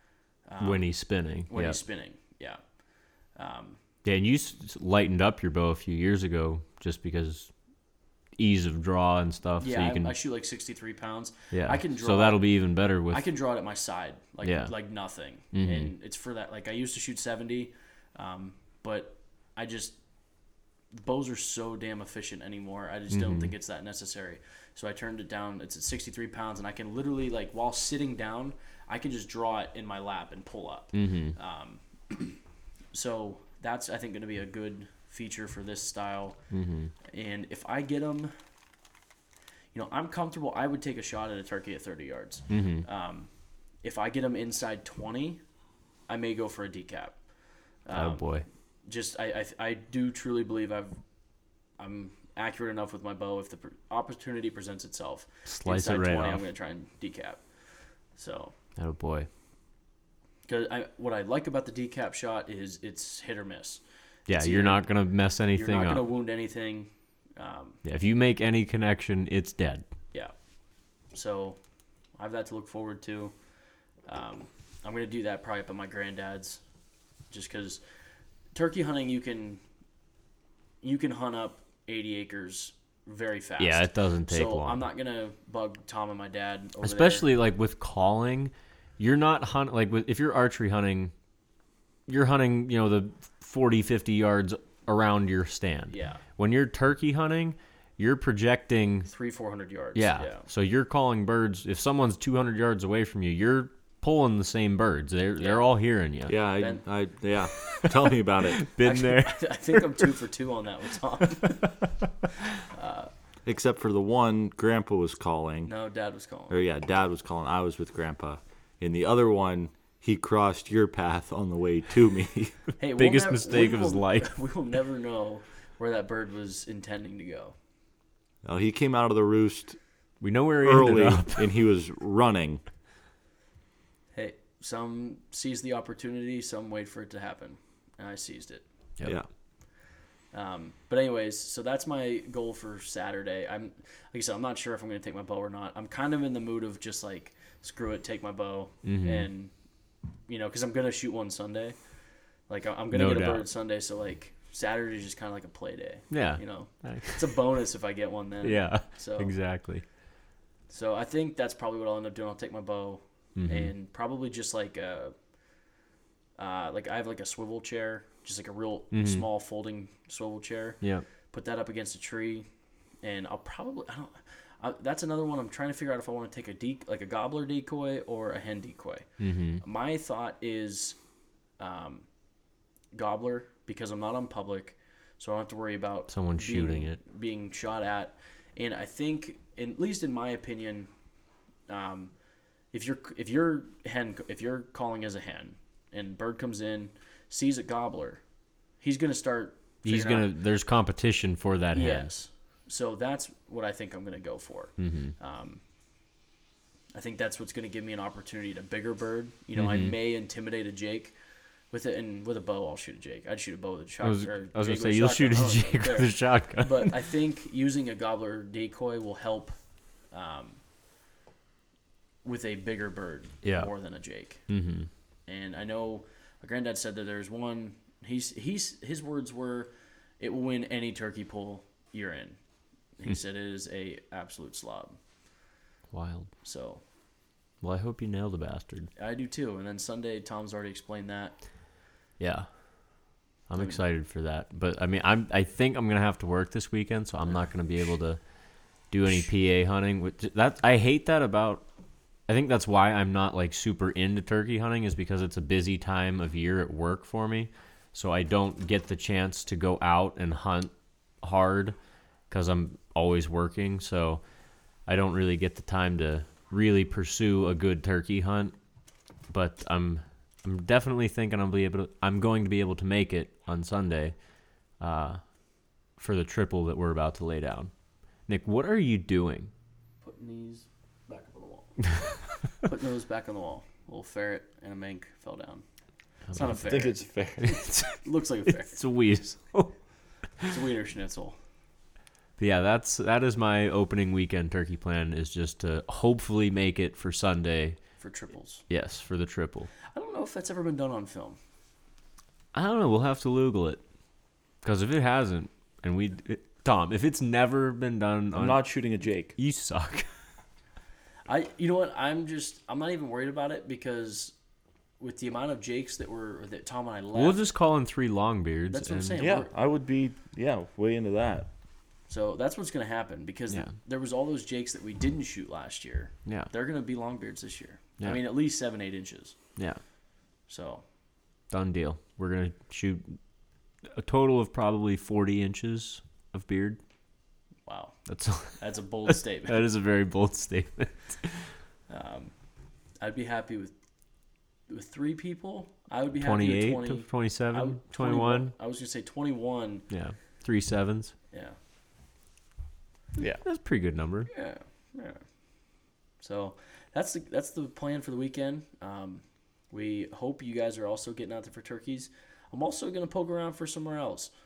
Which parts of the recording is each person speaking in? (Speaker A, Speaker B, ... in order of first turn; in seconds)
Speaker A: 0.5-0.9, 1.5-2.6, 3.4-3.8, 9.6-12.5, 13.1-20.0, 20.9-32.4, 32.9-36.4, 37.1-38.3, 39.7-43.3, 43.8-45.4, 46.1-47.2, 47.9-48.3, 48.9-51.0, 51.8-58.5, 60.5-64.9, 65.5-67.8, 71.1-71.6, 72.2-73.3, 74.1-76.6, 77.3-77.8, 78.5-79.6, 80.8-87.3, 95.9-96.2, 99.1-100.5, 105.4-105.7, 106.6-106.8, 108.8-111.7, 112.6-113.1, 115.7-116.7, 122.8-127.6, 134.1-138.6, 140.3-149.5, 150.3-151.8, 152.5-159.3, 160.7-165.1, 166.4-172.5, 173.0-179.1, 179.6-181.0, 181.6-182.1, 182.9-190.9, 191.7-192.1, 192.7-198.2, 198.8-200.3, 201.7-205.6, 206.9-211.2, 211.7-219.6, 220.1-220.6, 222.2-224.4, 225.3-232.4, 233.0-235.0, 236.4-236.8, 239.0-241.4, 280.0-282.1, 282.6-285.6, 286.3-288.8, 290.4-291.4, 298.0-298.6, 299.9-301.4, 311.3-314.4, 315.0-317.4, 318.7-319.5, 322.1-329.4, 330.5-330.8, 337.7-339.6, 341.9-342.3, 343.0-343.7, 344.7-349.9, 351.3-351.6, 354.3-355.2, 356.2-364.3
Speaker B: 0.6-1.8, 4.0-7.5, 8.4-10.2, 11.5-13.3, 14.4-14.8, 15.5-15.9, 23.1-23.6, 30.9-31.4, 36.5-36.9, 42.5-42.9, 47.9-48.5, 55.5-56.5, 58.8-59.3, 64.3-66.0, 67.8-69.8, 83.6-84.9, 86.8-91.1, 92.1-99.1, 100.0-106.3, 107.6-110.2, 111.5-111.8, 122.9-124.4, 130.2-131.5, 148.8-149.3, 152.9-153.5, 156.1-157.4, 158.4-159.8, 163.4-163.7, 168.9-169.3, 179.2-179.6, 186.1-187.0, 199.8-202.1, 204.8-205.1, 209.6-209.9, 214.0-216.9, 223.4-223.7, 224.5-224.9, 235.9-236.3, 237.6-238.9, 242.2-242.5, 243.5-248.2, 248.8-251.7, 252.3-261.8, 262.3-264.2, 264.9-268.6, 269.3-274.2, 274.8-275.2, 276.0-277.7, 278.3-279.5, 286.3-289.8, 292.4-297.8, 298.7-299.7, 302.5-303.8, 304.6-308.8, 309.4-310.1, 317.1-319.2, 326.2-326.5, 329.6-329.8, 331.5-333.2, 333.9-336.8, 338.1-341.5, 346.1-348.5, 349.9-351.1, 353.4-354.3
Speaker C: 106.3-108.7, 113.5-115.7, 116.5-122.6, 128.4-129.8, 130.6-132.6, 286.5-287.6, 308.4-309.4, 319.2-321.5, 353.2-353.4